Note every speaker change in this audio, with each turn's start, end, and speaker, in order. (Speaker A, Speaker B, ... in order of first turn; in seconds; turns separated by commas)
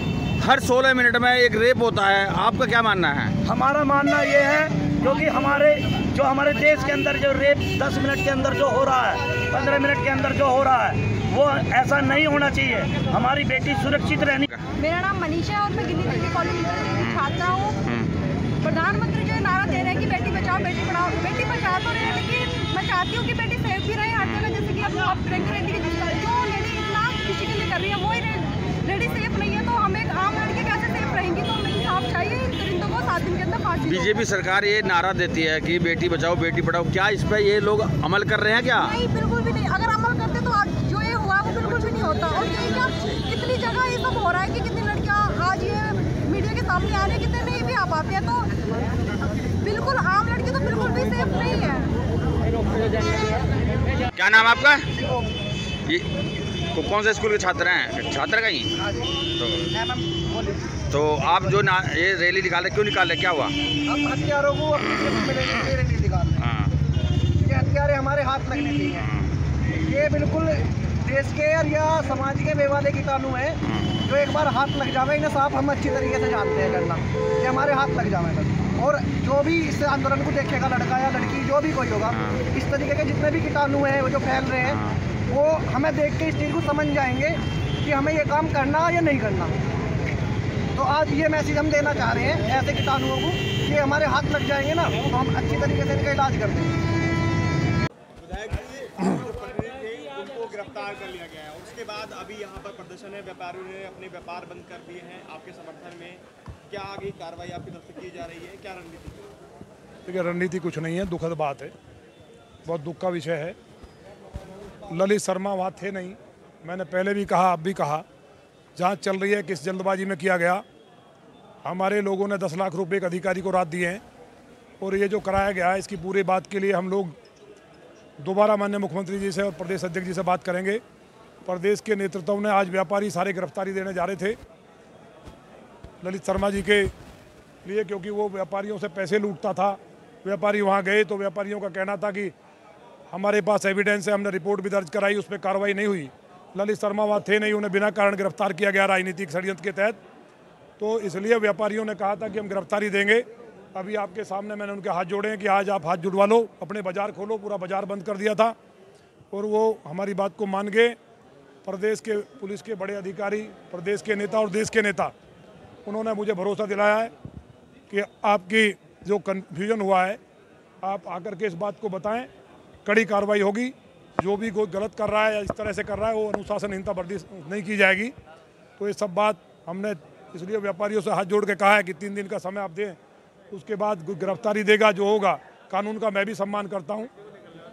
Speaker A: 0.4-3.3, Speaker B: 3.4-14.5, Speaker C: 14.8-17.8, Speaker A: 17.9-18.1, Speaker C: 18.6-34.1, Speaker A: 33.9-39.0, Speaker C: 38.8-48.5, Speaker C: 49.6-51.9, Speaker A: 54.1-54.9, Speaker D: 55.0-55.3, Speaker A: 56.7-58.7, Speaker D: 58.8-59.1, Speaker A: 59.4-59.7, Speaker D: 59.7-61.6, Speaker A: 60.9-63.5, Speaker D: 63.9-66.5, Speaker A: 66.4-66.7, Speaker D: 67.4-69.1, Speaker D: 69.9-89.5, Speaker D: 90.8-96.8, Speaker E: 98.2-109.3, Speaker F: 110.1-111.7, Speaker F: 112.7-113.6, Speaker F: 114.9-118.0, Speaker F: 118.8-120.6, Speaker F: 121.6-124.0, Speaker F: 124.8-127.2, Speaker F: 128.2-130.8, Speaker F: 131.5-134.4, Speaker F: 136.0-136.9, Speaker F: 137.6-142.3, Speaker F: 143.1-150.0, Speaker F: 150.8-158.6, Speaker F: 159.3-161.0, Speaker F: 161.6-165.1, Speaker F: 165.9-167.1, Speaker F: 167.9-170.2, Speaker F: 170.8-172.3, Speaker F: 172.8-178.1, Speaker F: 178.8-183.0, Speaker F: 183.5-187.1